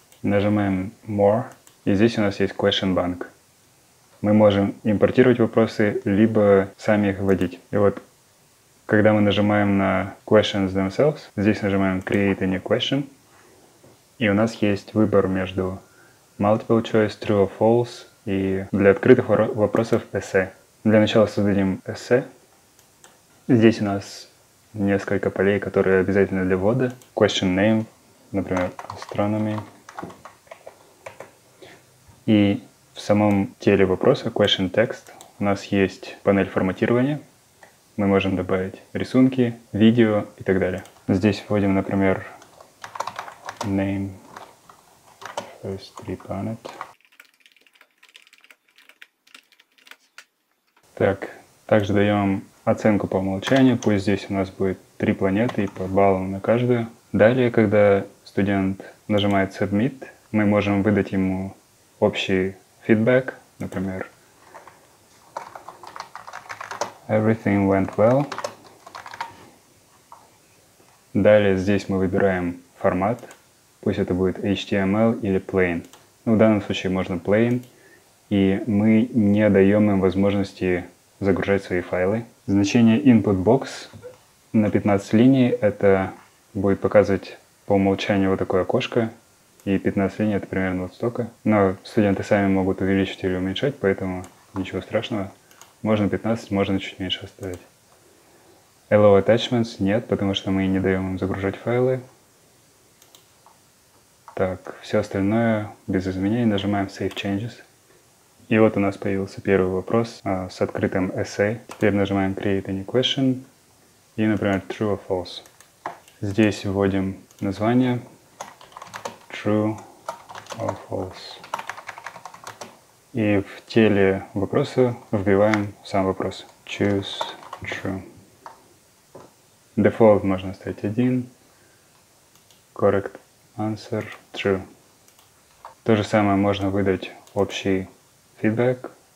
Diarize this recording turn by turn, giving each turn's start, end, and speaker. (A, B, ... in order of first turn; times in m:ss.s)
0:00.2-0:03.3 A
0:04.2-0:08.0 A
0:08.9-0:13.1 A
0:14.2-0:15.8 A
0:16.4-0:22.3 A
0:23.5-0:29.6 A
0:32.3-0:37.2 A
0:38.0-0:42.3 A
0:43.6-0:44.2 A
0:45.6-0:46.8 A
0:51.0-1:04.1 A
1:07.1-1:08.3 A
1:11.1-1:17.7 A
1:18.3-1:23.9 A
1:24.5-1:29.1 A
1:29.6-1:37.7 A
1:38.9-1:42.0 A
1:44.3-1:47.6 A
1:48.5-1:53.5 A
1:54.2-1:55.5 A
1:56.2-1:58.0 A
1:59.3-1:59.8 A
2:00.5-2:01.4 A
2:03.1-2:08.0 A
2:09.8-2:11.3 A
2:12.7-2:14.6 A
2:15.8-2:18.9 A